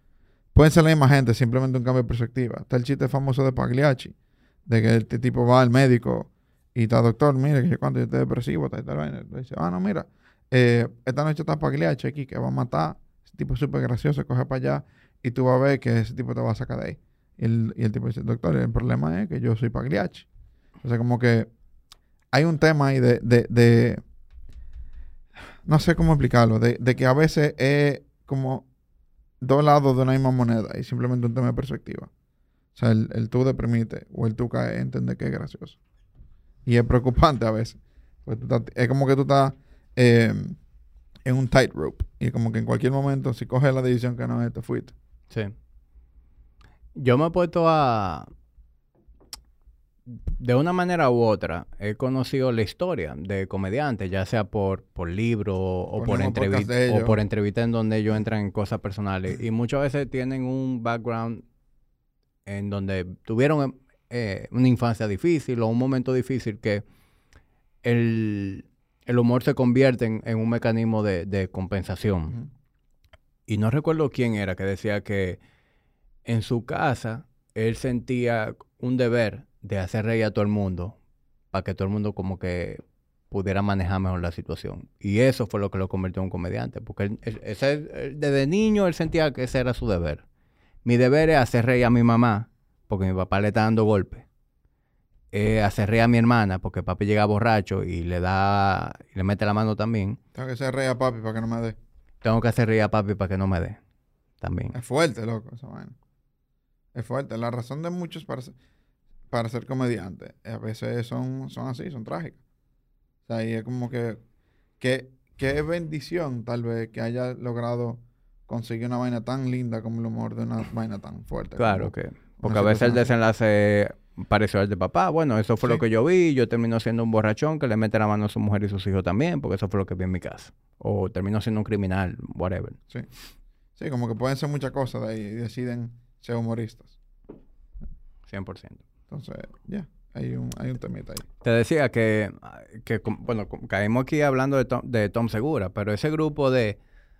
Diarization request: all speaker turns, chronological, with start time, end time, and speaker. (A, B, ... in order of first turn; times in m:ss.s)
0:00.5-0:04.1 A
0:04.7-0:20.2 A
0:20.8-0:21.5 A
0:22.3-0:24.0 A
0:25.6-0:28.6 A
0:29.4-0:32.1 A
0:32.8-0:35.8 A
0:36.6-0:40.6 A
0:41.2-0:44.9 A
0:47.0-0:48.3 B
0:50.1-1:01.4 B
0:56.0-0:57.2 A
1:02.4-1:06.8 B
1:07.8-1:12.4 B
1:13.5-1:15.4 B
1:16.2-1:21.0 B
1:21.5-1:30.2 B
1:30.8-1:34.2 B
1:35.3-1:40.2 B
1:40.3-1:41.8 A
1:42.2-1:43.8 B
1:44.4-1:44.8 B
1:44.7-1:45.9 A
1:46.9-1:48.5 A
1:49.3-1:52.4 A
1:53.3-1:54.2 A
1:54.8-2:03.1 A
2:01.6-2:12.8 B
2:13.8-2:17.0 A
2:18.3-2:18.8 B
2:19.1-2:21.2 A
2:21.4-2:26.8 B